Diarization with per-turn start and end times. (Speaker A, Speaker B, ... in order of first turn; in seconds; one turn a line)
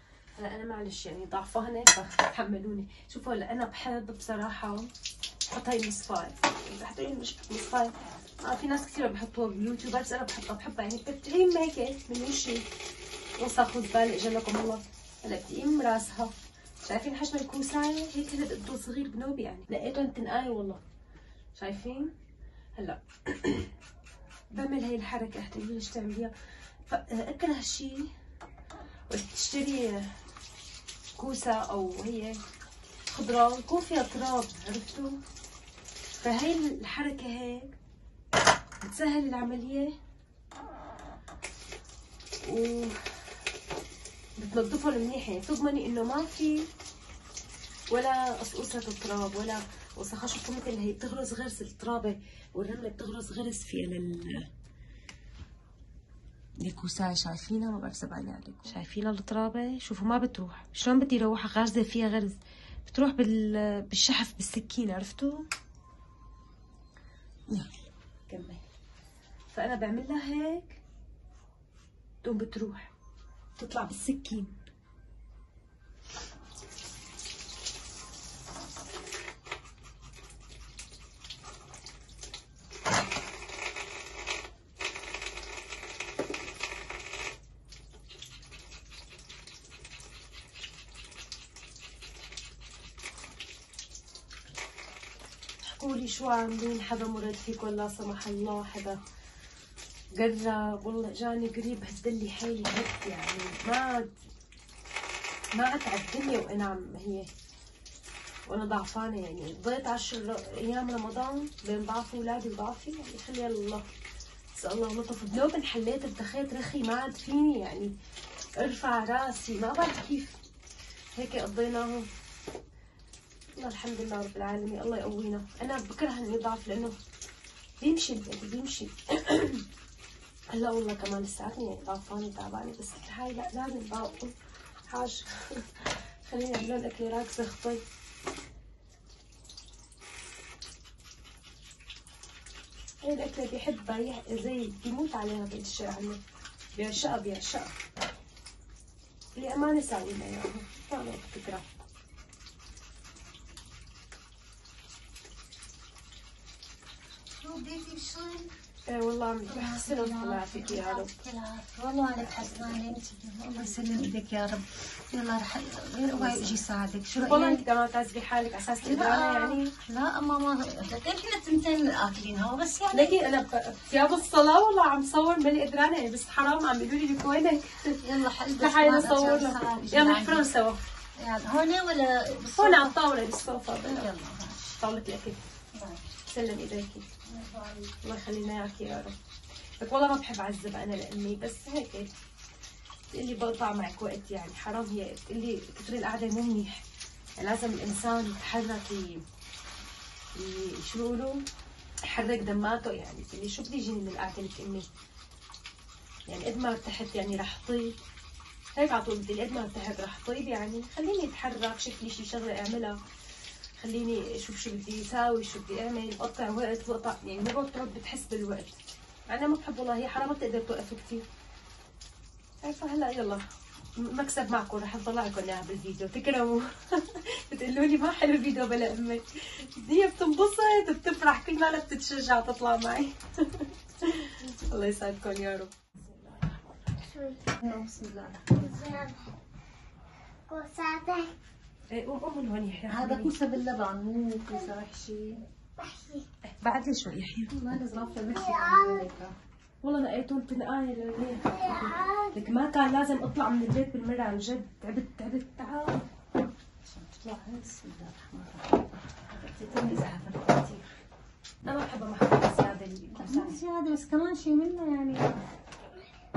Speaker A: 0.3-4.9
Speaker A: 5.5-12.6
Speaker A: 13.4-20.8
Speaker A: 21.5-22.1
Speaker A: 22.8-23.7
Speaker A: 24.5-26.3
Speaker A: 26.9-28.1
Speaker A: 29.1-30.1
Speaker A: 31.2-32.4
Speaker A: 33.1-35.2
Speaker A: 36.2-37.7
Speaker A: 38.8-39.9
Speaker A: 42.4-43.1
Speaker A: 44.4-46.7
Speaker A: 47.9-54.5
Speaker A: 56.6-65.5
Speaker A: 68.3-68.6
Speaker A: 69.5-70.8
Speaker A: 72.2-72.9
Speaker A: 73.6-74.5
Speaker A: 95.6-99.0
Speaker A: 100.2-104.1
Speaker A: 105.5-107.3
Speaker A: 108.5-113.9
Speaker A: 114.5-117.9
Speaker A: 118.6-120.4
Speaker A: 121.2-122.1
Speaker A: 123.5-127.0
Speaker A: 127.8-129.6
Speaker A: 130.5-134.3
Speaker A: 134.9-137.8
Speaker A: 143.0-146.2
Speaker A: 146.8-147.8
Speaker A: 149.3-151.8
Speaker B: 157.3-158.5
Speaker A: 158.9-161.1
Speaker B: 159.5-167.6
Speaker A: 162.3-162.7
Speaker A: 166.1-166.6
Speaker A: 167.2-169.7
Speaker B: 168.8-173.2
Speaker A: 172.9-178.0
Speaker B: 178.0-180.5
Speaker A: 178.5-180.8
Speaker B: 181.2-183.0
Speaker A: 182.6-184.1
Speaker B: 183.8-184.8
Speaker A: 184.8-185.4
Speaker B: 185.7-186.0
Speaker A: 186.3-187.0
Speaker B: 187.3-188.0
Speaker A: 188.0-189.2
Speaker A: 189.8-192.1
Speaker A: 193.1-196.8
Speaker A: 197.4-199.2
Speaker A: 200.3-201.4
Speaker A: 202.1-204.9
Speaker A: 206.3-207.9
Speaker A: 208.8-213.0
Speaker A: 213.8-218.8
Speaker A: 219.3-221.2
Speaker A: 222.6-223.4
Speaker A: 223.9-236.5
Speaker C: 237.0-237.4
Speaker B: 237.6-238.9
Speaker C: 238.5-239.3
Speaker C: 240.5-241.3
Speaker A: 241.9-243.3
Speaker B: 242.9-245.4
Speaker C: 245.8-246.2
Speaker A: 246.6-247.6
Speaker B: 247.5-249.3
Speaker C: 248.3-249.1
Speaker A: 249.8-256.1
Speaker C: 251.5-252.4
Speaker B: 256.8-260.8
Speaker A: 259.8-260.8
Speaker A: 261.6-263.6
Speaker B: 263.1-265.4